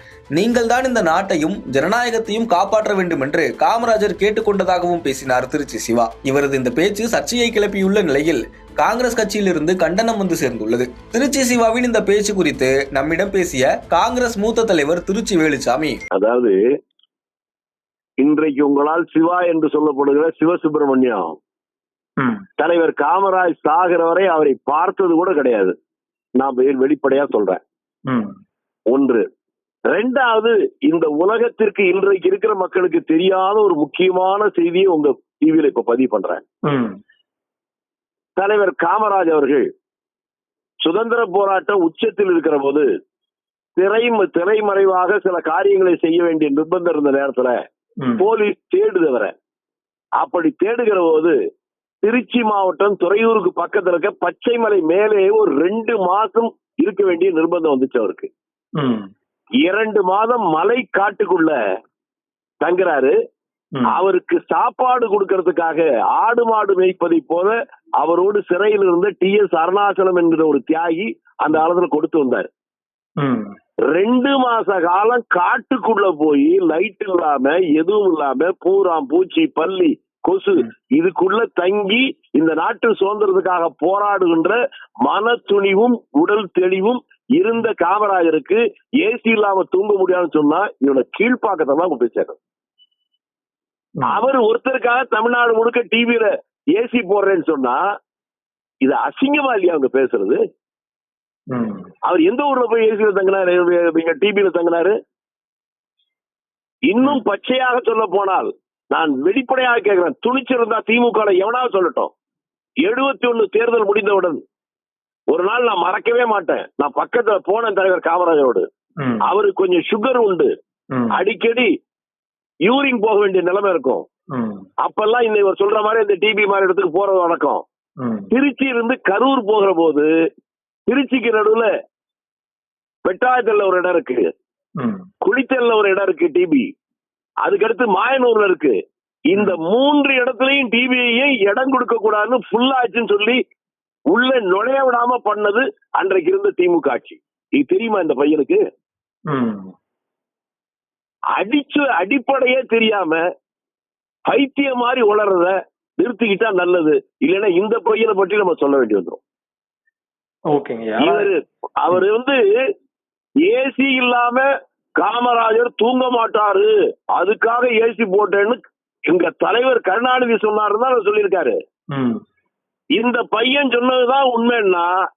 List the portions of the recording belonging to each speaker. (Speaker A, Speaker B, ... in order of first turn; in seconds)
Speaker A: 0.3-16.0
Speaker B: 16.1-16.6, 18.2-21.4, 22.6-25.7, 26.4-27.6, 28.9-29.3, 29.9-36.4, 38.4-39.7, 40.8-42.9, 43.8-47.5, 48.2-49.3, 50.2-51.4, 52.0-58.3, 59.6-61.6, 62.6-63.1, 63.9-72.5, 73.9-92.4, 94.1-97.8, 98.8-100.4, 102.0-105.0, 106.9-112.1, 112.8-114.4, 115.3-118.7, 119.2-120.5, 121.1-121.7, 122.7-124.0, 124.8-127.6, 128.3-130.1, 130.9-131.7, 133.1-134.2, 135.2-136.7, 137.4-138.8, 139.3-143.4, 144.1-148.6, 151.4-153.2, 154.3-159.2, 161.0-162.4, 163.4-164.5, 165.0-171.6, 173.0-174.9
Speaker C: 28.1-28.4, 36.7-37.0, 58.8-59.1, 63.8-64.0, 73.2-73.5, 94.0-94.3, 101.5-101.9, 120.9-121.2, 124.3-124.7, 128.0-128.3, 134.8-135.1, 149.3-149.7, 160.5-161.3, 171.9-172.2